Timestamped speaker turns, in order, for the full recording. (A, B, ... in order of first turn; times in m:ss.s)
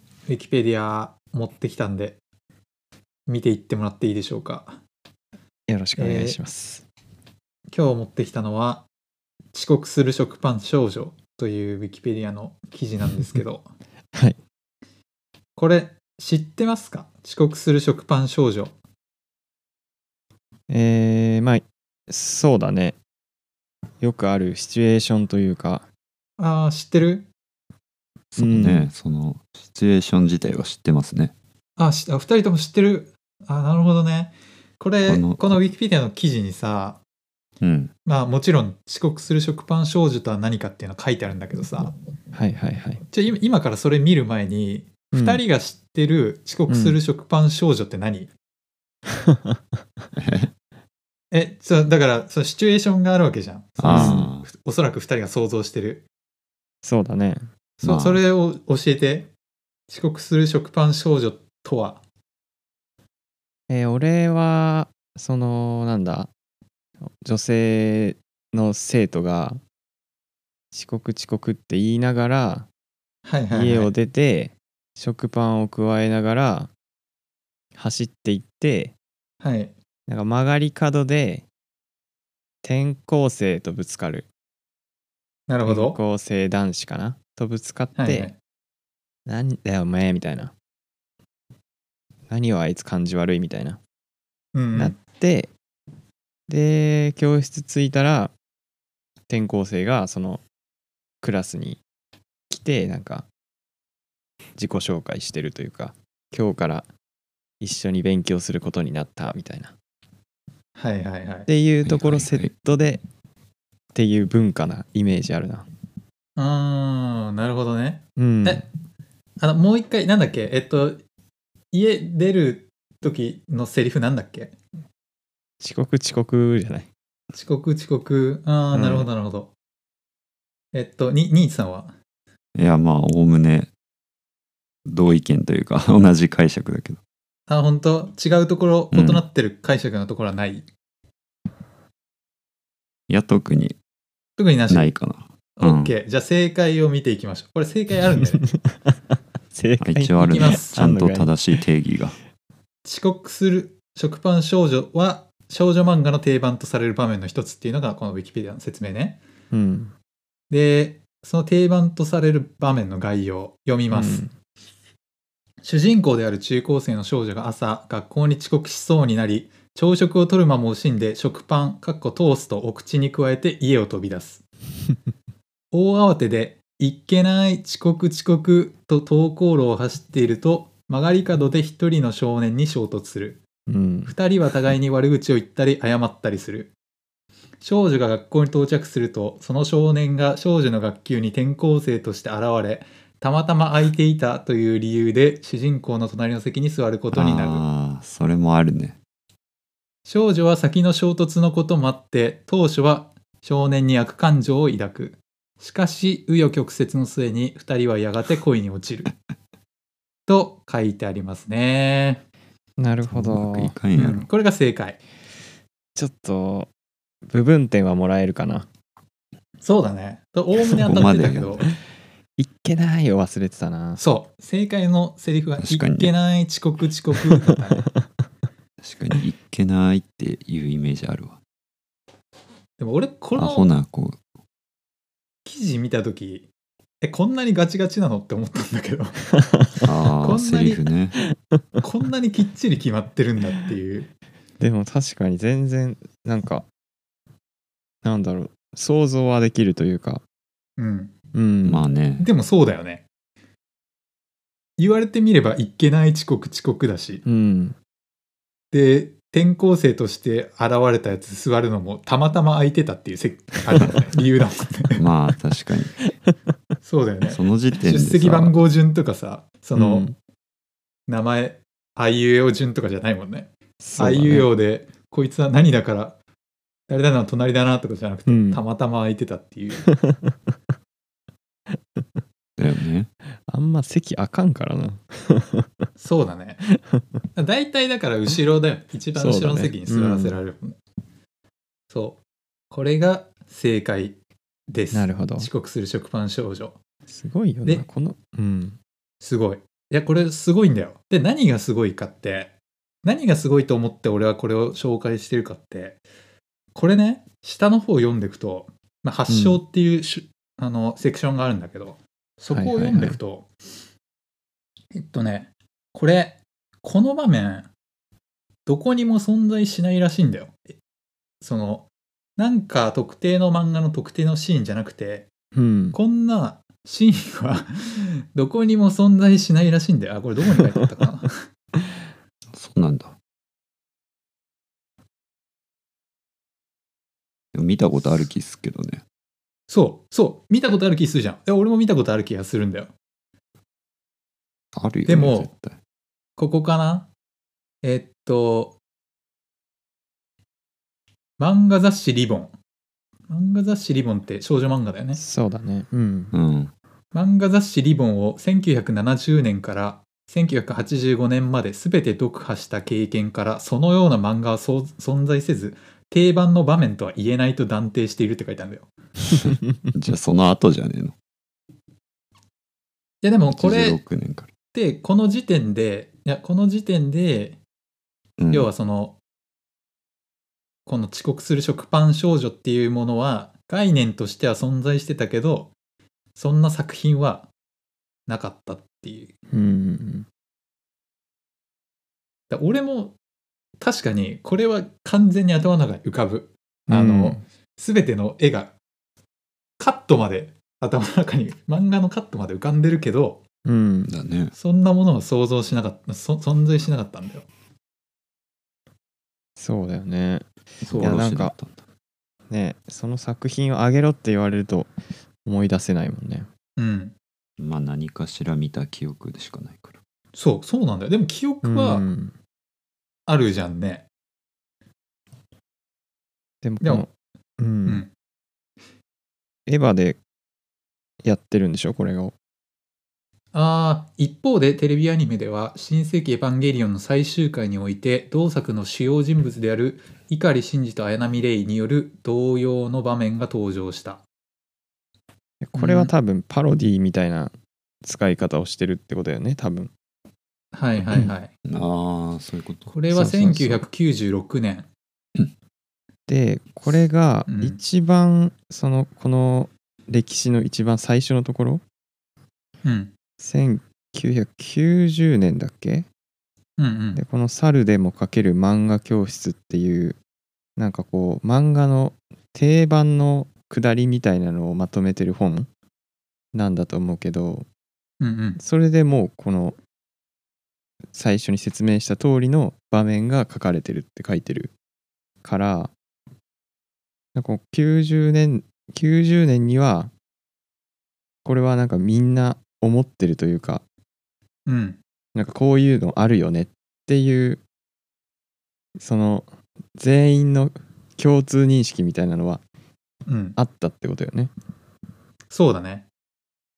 0:00.3-0:02.2 A
0:03.3-0:04.8 A
0:05.7-0:06.8 B
0:06.0-0:06.4 A
0:07.7-0:08.9 A
0:09.5-0:13.7 A
0:15.6-0:18.7 A
0:20.7-0:23.0 B
0:24.0-0:25.8 B
0:26.4-0:27.3 A
0:28.3-0:31.3 C
0:28.4-0:28.9 B
0:31.8-0:37.0 A
0:35.0-0:35.6 C
0:37.6-0:37.9 C
0:38.0-0:41.9 A
0:42.3-0:43.0 B
0:43.1-0:48.3 A
0:45.1-0:45.4 B
0:46.7-0:47.0 B
0:49.3-0:49.6 B
0:50.2-0:50.5 C
0:51.3-0:56.0 A
0:53.8-0:54.5 C
0:53.8-0:54.3 B
0:56.8-0:57.5 B
0:57.8-0:59.3 A
0:57.8-0:58.2 C
0:59.9-1:02.0 A
1:03.7-1:06.3 B
1:07.2-1:09.6 B
1:10.7-1:12.7 B
1:13.2-1:13.9 A
1:13.5-1:16.7 B
1:17.7-1:18.9 B
1:19.4-1:19.7 A
1:20.1-1:21.5 B
1:22.6-1:24.3 B
1:25.5-1:26.0 A
1:25.6-1:28.3 B
1:28.0-1:28.4 A
1:29.2-1:30.5 B
1:32.3-1:33.8 B
1:34.5-1:35.0 A
1:34.8-1:35.5 B
1:36.5-1:38.3 B
1:39.3-1:40.4 B
1:41.2-1:41.8 B
1:42.5-1:43.3 B
1:44.6-1:46.9 B
1:47.6-1:49.7 B
1:50.8-1:51.5 A
1:51.5-1:53.0 B
1:51.8-1:52.5 C
1:53.9-1:55.7 B
1:56.4-1:58.6 A
1:58.2-1:58.6 B
1:59.4-2:01.0 A
2:01.7-2:04.6 A
2:05.6-2:06.9 B
2:07.3-2:09.5 A
2:08.7-2:09.1 B
2:10.7-2:11.9 A
2:12.6-2:13.7 C
2:14.9-2:17.0 C
2:17.5-2:20.7 A
2:18.9-2:19.2 C
2:23.1-2:23.8 C
2:24.4-2:24.9 A
2:24.7-2:26.0 C
2:25.6-2:28.4 A
2:28.6-2:28.9 B
2:29.5-2:31.4 B
2:29.8-2:32.2 C
2:30.2-2:30.8 A
2:32.8-2:39.2 A
2:39.5-2:39.9 B
2:40.5-2:44.2 A
2:43.9-2:44.3 B
2:45.6-2:54.4 A
2:55.7-3:03.4 A
3:03.7-3:04.1 B
3:04.1-3:06.7 A
3:07.6-3:17.6 A
3:17.1-3:19.0 C
3:20.0-3:29.1 A
3:30.3-3:32.2 A
3:32.8-3:33.8 B
3:33.1-3:34.3 C
3:33.9-3:35.0 A
3:36.0-3:36.7 B
3:37.2-3:38.7 B
3:39.6-3:41.6 A
3:40.8-3:41.1 B
3:40.8-3:41.7 C
3:42.4-3:44.0 B
3:44.0-3:47.9 A
3:45.6-3:46.1 C
3:48.8-3:51.4 C
3:52.8-3:53.7 A
3:53.3-3:54.2 C
3:55.4-3:56.5 A
3:57.0-3:59.3 A
3:59.8-4:01.2 C
4:00.2-4:00.8 A
4:01.8-4:04.1 A
4:04.6-4:06.6 B
4:08.0-4:10.2 B
4:10.8-4:11.1 A
4:11.3-4:11.9 B
4:11.6-4:12.3 C
4:12.2-4:13.0 A
4:14.8-4:17.2 A
4:17.2-4:17.8 B
4:18.7-4:25.0 A
4:25.0-4:26.0 C
4:26.8-4:30.1 A
4:27.2-4:28.6 C
4:29.7-4:30.1 B
4:31.1-4:36.2 A
4:33.8-4:34.5 B
4:36.9-4:39.9 A
4:38.3-4:38.6 B
4:39.8-4:40.5 B
4:42.6-4:43.1 C
4:43.5-4:45.8 B
4:46.0-4:46.7 A
4:47.3-4:50.8 A
4:49.1-4:50.4 B
4:51.9-4:52.2 A
4:52.7-4:54.2 A
4:54.7-4:56.8 A
4:54.9-4:55.5 B
4:57.1-4:58.8 B
4:59.2-5:06.0 A
5:06.7-5:13.5 A
5:09.3-5:09.6 B
5:12.5-5:13.2 B
5:14.9-5:17.7 A
5:18.6-5:20.7 A
5:21.4-5:25.3 A
5:25.5-5:26.0 B
5:25.9-5:31.5 A
5:32.5-5:33.1 C
5:37.5-5:39.0 C
5:39.7-5:42.9 A
5:44.7-5:45.8 C
5:45.0-5:45.5 A
5:46.4-5:47.1 A
5:47.8-5:48.8 A
5:51.4-5:52.5 A
5:53.3-5:55.2 A
5:55.2-5:56.3 B
5:56.3-5:56.7 C
5:57.1-6:08.9 A
6:09.3-6:11.1 C
6:13.2-6:14.0 A
6:13.5-6:14.5 C
6:14.7-6:17.6 A
6:18.4-6:18.7 C
6:18.5-6:19.2 A
6:20.8-6:25.7 A
6:26.3-6:27.5 A
6:28.3-6:29.3 A
6:29.5-6:30.2 B
6:32.5-6:33.2 A
6:33.8-6:38.7 A
6:36.9-6:37.4 B
6:39.8-6:43.4 A
6:43.6-6:44.1 B
6:44.1-6:44.5 C
6:44.5-6:47.5 A
6:49.6-6:51.5 B
6:50.8-6:51.8 C
6:50.9-6:51.2 A
6:52.5-6:54.9 B
6:55.4-6:56.5 B
6:56.8-6:57.1 A
6:57.6-7:00.0 C
7:00.3-7:02.0 A
7:01.6-7:02.3 B
7:03.3-7:04.1 A
7:06.6-7:08.0 B
7:06.8-7:07.1 A
7:09.7-7:10.2 B
7:11.2-7:12.3 B
7:13.5-7:24.2 A
7:25.6-7:27.5 B
7:25.8-7:26.1 A
7:28.0-7:29.9 B
7:30.7-7:31.5 A
7:31.7-7:32.9 C
7:32.9-7:34.9 A
7:33.1-7:33.8 B
7:36.3-7:41.8 B
7:37.5-7:37.8 A
7:42.8-7:43.1 A
7:43.4-7:46.1 B
7:46.8-7:47.2 A
7:47.1-7:50.2 B
7:50.8-7:55.7 B
7:56.5-7:57.7 B
7:58.2-7:58.6 A
7:58.6-7:59.8 B
8:01.1-8:04.7 B
8:05.4-8:05.9 B
8:07.3-8:10.1 B
8:11.4-8:13.8 B
8:14.7-8:15.0 A
8:15.3-8:17.6 B
8:19.0-8:22.6 B
8:23.3-8:23.6 A
8:23.6-8:24.5 B
8:25.5-8:26.0 A